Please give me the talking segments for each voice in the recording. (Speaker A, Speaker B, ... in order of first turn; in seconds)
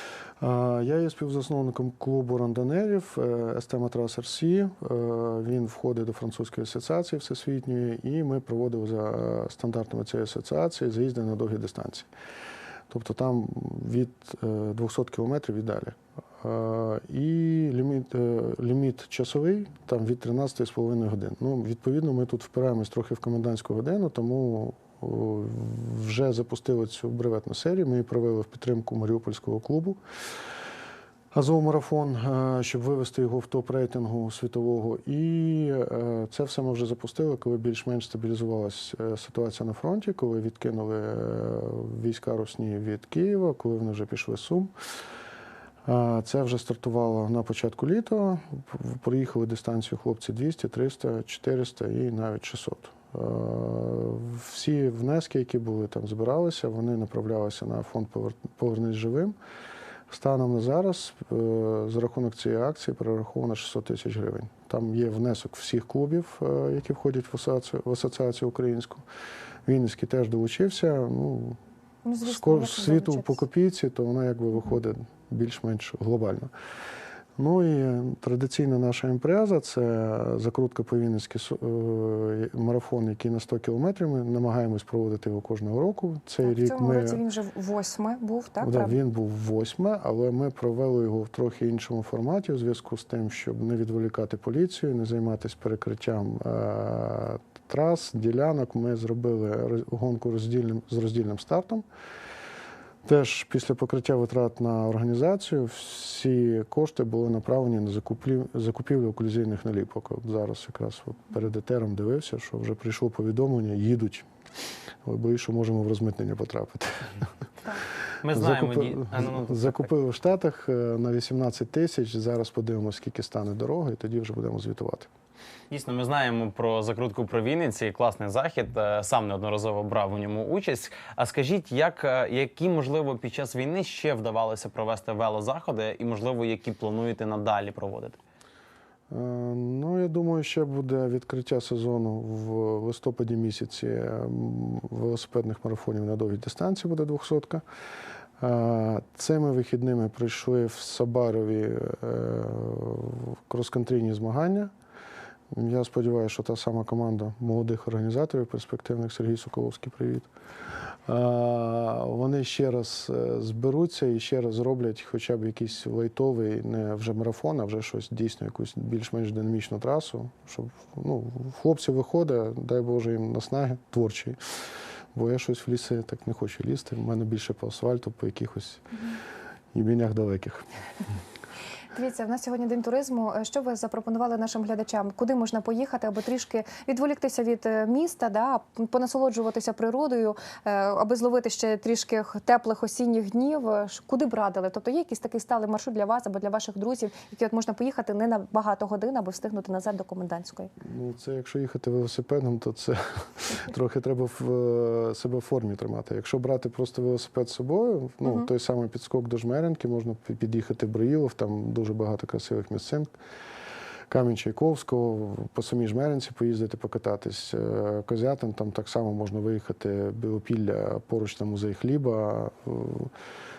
Speaker A: 0.4-12.1, 12.9-30.0, 31.3-44.7, 45.9-59.4, 60.1-69.0, 69.7-71.6, 72.2-76.5, 77.4-87.2, 88.6-101.8, 103.0-114.3, 115.0-117.3, 118.3-125.1, 139.1-147.6, 148.4-154.7, 155.5-160.3, 160.9-174.4, 175.2-178.8, 179.7-180.7, 200.8-213.1, 214.1-223.1
Speaker B: 72.0-73.4, 86.4-89.0, 181.9-200.7
Speaker C: 118.2-119.9, 125.7-138.2